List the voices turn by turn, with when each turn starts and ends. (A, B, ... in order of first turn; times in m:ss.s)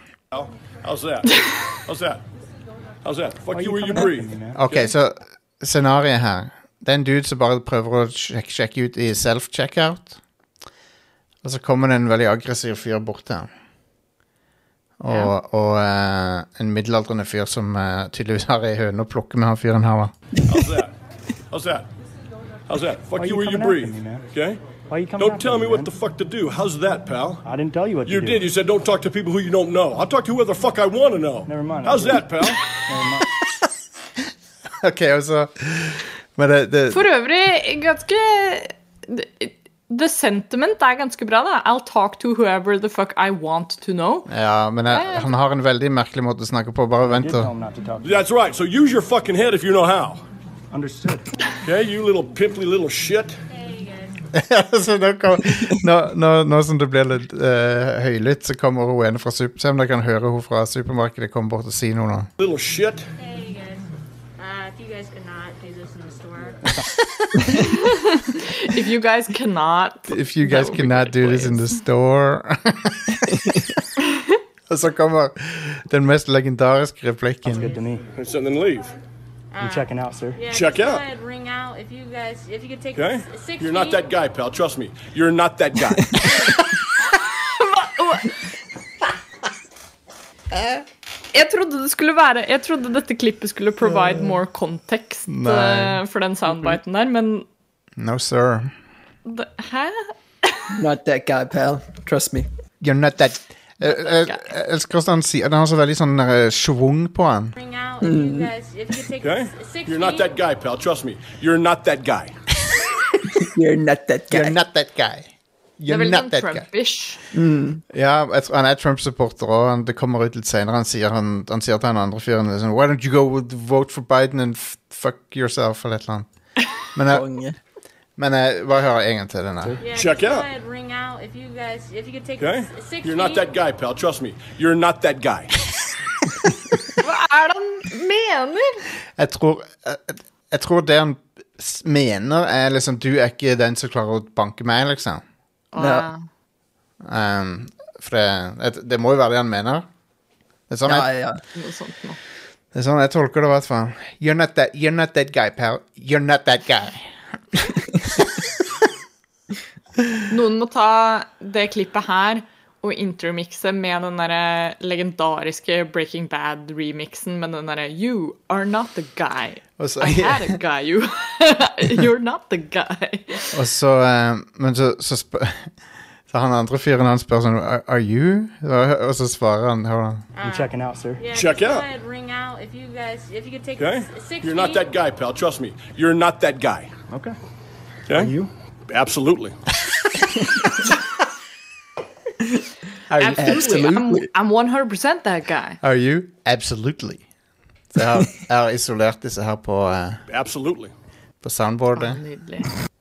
0:00.3-0:02.2 A
0:03.0-0:04.9 A
0:03.5-0:04.6 B
0:04.5-0:10.2 C
0:11.4-0:13.5 C
0:15.0-0:20.1 C
0:15.1-0:15.3 D
0:20.5-0:20.9 A
0:21.5-0:21.9 A
0:22.7-0:24.6 A
0:23.2-0:24.2 B
0:24.9-0:25.9 B
0:25.2-0:27.4 A
0:27.4-0:28.4 B
0:28.0-0:32.8 A
0:31.5-0:32.2 B
0:32.8-0:33.3 B
0:34.8-0:37.0 C
0:36.9-0:44.3 D
0:44.3-0:47.5 C
0:44.9-0:45.3 D
0:47.0-0:48.3 B
0:48.0-0:50.2 A
0:50.7-0:51.3 B
0:51.6-0:53.4 A
0:53.5-0:54.2 E
0:54.3-1:02.3 C
1:02.4-1:03.1 A
1:03.2-1:03.8 E
1:04.4-1:06.6 E
1:07.1-1:07.7 C
1:07.6-1:11.8 D
1:10.1-1:13.8 C
1:14.7-1:17.7 C
1:17.4-1:18.1 B
1:18.1-1:18.9 A
1:19.5-1:24.0 E
1:19.6-1:20.4 B
1:20.5-1:21.0 A
1:22.9-1:26.2 A
1:26.0-1:26.3 F
1:27.1-1:28.6 D
1:31.3-1:37.5 D
1:35.3-1:36.0 C
1:38.0-1:38.7 C
1:39.2-1:40.8 D
1:40.7-1:42.5 F
1:42.8-1:47.5 C
1:43.8-1:44.4 D
1:47.6-1:50.3 E
1:48.0-1:48.5 F
1:49.2-1:52.3 A
1:53.2-1:54.6 F
1:54.3-1:56.7 C
1:55.9-1:57.2 D
1:57.3-1:57.8 F
1:57.9-2:06.3 C
2:06.8-2:07.3 C
2:07.1-2:07.6 F
2:08.2-2:09.8 C
2:09.8-2:13.5 E
2:09.9-2:10.5 A
2:12.4-2:15.5 A
2:17.0-2:18.9 D
2:19.2-2:25.2 C
2:25.7-2:26.2 D
2:25.8-2:26.1 F
2:27.0-2:29.8 C
2:30.7-2:31.1 C
2:30.8-2:31.4 F
2:31.5-2:32.2 D
2:32.7-2:37.1 C
2:37.7-2:38.4 C
2:40.3-2:53.6 D
2:49.8-2:50.6 C
2:53.5-2:55.7 C
2:56.3-3:00.2 C
3:00.4-3:04.9 E
3:00.4-3:01.2 B
3:01.3-3:01.9 A
3:03.8-3:06.9 A
3:07.1-3:07.4 B
3:08.1-3:08.5 B
3:08.9-3:09.6 A
3:13.1-3:14.0 C
3:13.1-3:15.8 D
3:13.4-3:14.3 F
3:15.8-3:17.2 C
3:17.9-3:20.2 C
3:20.3-3:20.9 A
3:21.4-3:22.2 C
3:21.9-3:22.7 D